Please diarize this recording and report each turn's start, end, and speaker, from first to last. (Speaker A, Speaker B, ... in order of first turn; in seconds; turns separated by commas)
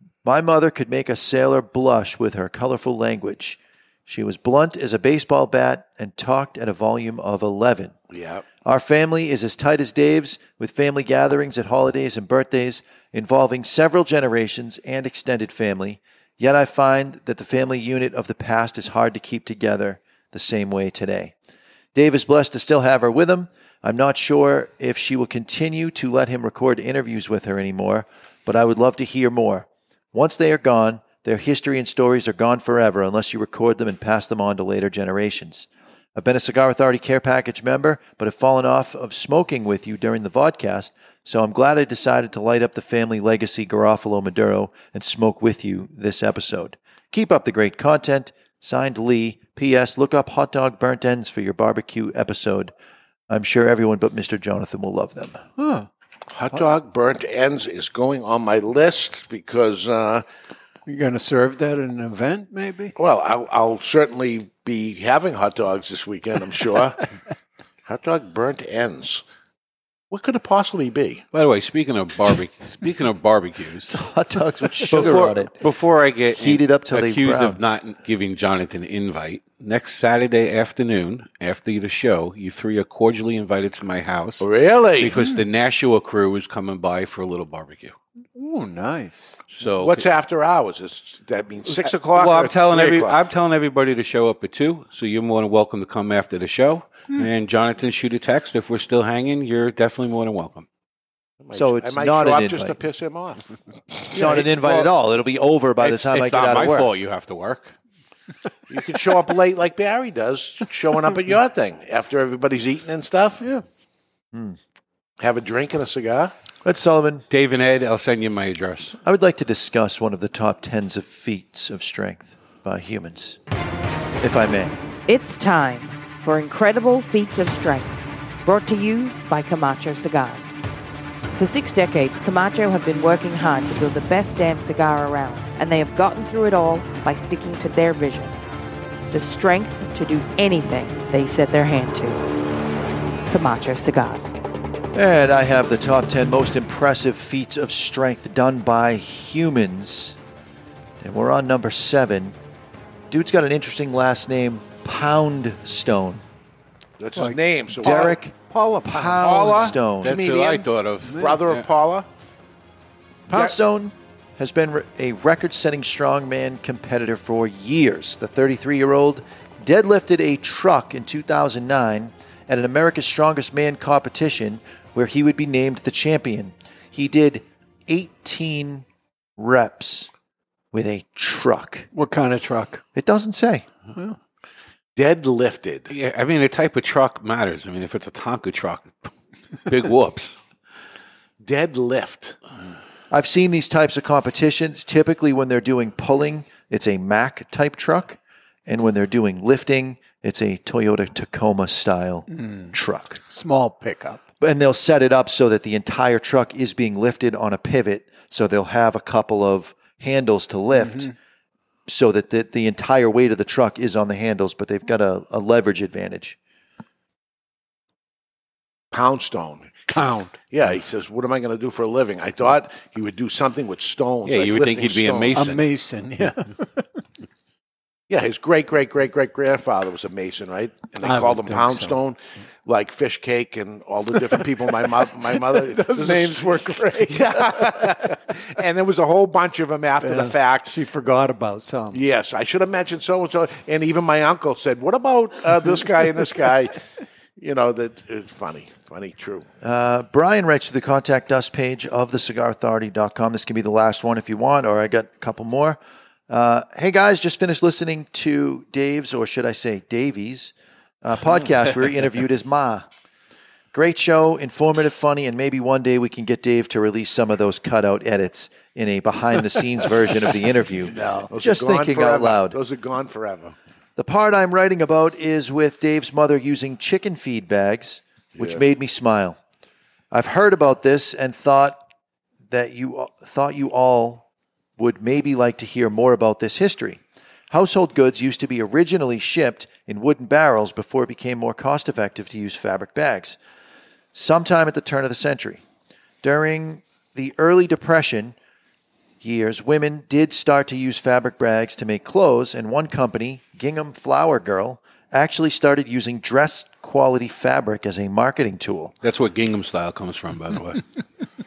Speaker A: 0.2-7.9, Speaker B: 8.1-8.5, Speaker A: 8.7-21.3, Speaker A: 21.9-52.7, Speaker A: 53.3-55.4, Speaker C: 55.6-55.9, Speaker B: 56.3-60.2, Speaker C: 60.9-63.0, Speaker B: 63.0-67.0, Speaker B: 67.9-69.2, Speaker B: 70.1-71.2, Speaker D: 71.3-74.0, Speaker A: 73.9-75.5, Speaker D: 74.9-84.5, Speaker A: 76.4-77.6, Speaker B: 84.4-85.2, Speaker D: 85.0-88.0, Speaker C: 88.4-89.4, Speaker D: 89.5-90.1, Speaker B: 89.8-93.2, Speaker D: 92.1-100.7, Speaker B: 101.4-103.5, Speaker A: 101.5-102.7, Speaker A: 104.1-106.9, Speaker D: 105.8-107.7, Speaker B: 108.7-113.4, Speaker B: 115.2-116.3, Speaker A: 116.7-117.2, Speaker D: 117.3-119.0, Speaker A: 119.0-123.4, Speaker A: 124.2-124.8, Speaker E: 125.1-130.5, Speaker E: 131.4-138.4, Speaker E: 139.1-142.2, Speaker E: 143.3-144.3, Speaker A: 144.9-150.2, Speaker A: 151.0-152.3, Speaker A: 153.1-156.2, Speaker B: 157.0-162.1, Speaker C: 157.2-158.1, Speaker A: 157.8-158.3, Speaker A: 158.9-160.2, Speaker D: 160.0-161.7, Speaker C: 161.1-161.4, Speaker A: 163.3-178.8, Speaker A: 179.4-180.1, Speaker A: 180.7-181.9, Speaker C: 181.9-182.8, Speaker A: 183.0-183.7, Speaker B: 185.0-185.9, Speaker D: 185.9-189.1, Speaker D: 189.7-190.4, Speaker B: 191.4-192.4, Speaker A: 193.1-203.2, Speaker C: 202.3-202.8, Speaker C: 203.3-204.2, Speaker A: 204.4-211.1, Speaker C: 210.8-211.1, Speaker A: 211.9-216.4, Speaker B: 218.9-219.7, Speaker C: 219.9-220.3, Speaker B: 220.5-225.4, Speaker D: 224.2-225.7, Speaker C: 225.3-226.9, Speaker B: 228.1-240.7, Speaker C: 231.0-232.0, Speaker C: 235.3-237.9, Speaker C: 240.0-242.0, Speaker B: 241.9-246.8, Speaker B: 247.4-249.5, Speaker A: 249.6-255.8, Speaker A: 256.3-260.5, Speaker A: 261.0-262.9, Speaker A: 263.7-272.6, Speaker C: 270.9-271.3, Speaker B: 271.3-273.6, Speaker A: 274.0-279.4, Speaker B: 278.4-278.6, Speaker A: 280.1-281.8, Speaker A: 282.5-284.2, Speaker A: 284.8-287.0, Speaker A: 287.5-293.4, Speaker A: 294.1-295.6, Speaker A: 296.2-298.4, Speaker A: 299.2-308.9, Speaker D: 309.0-310.8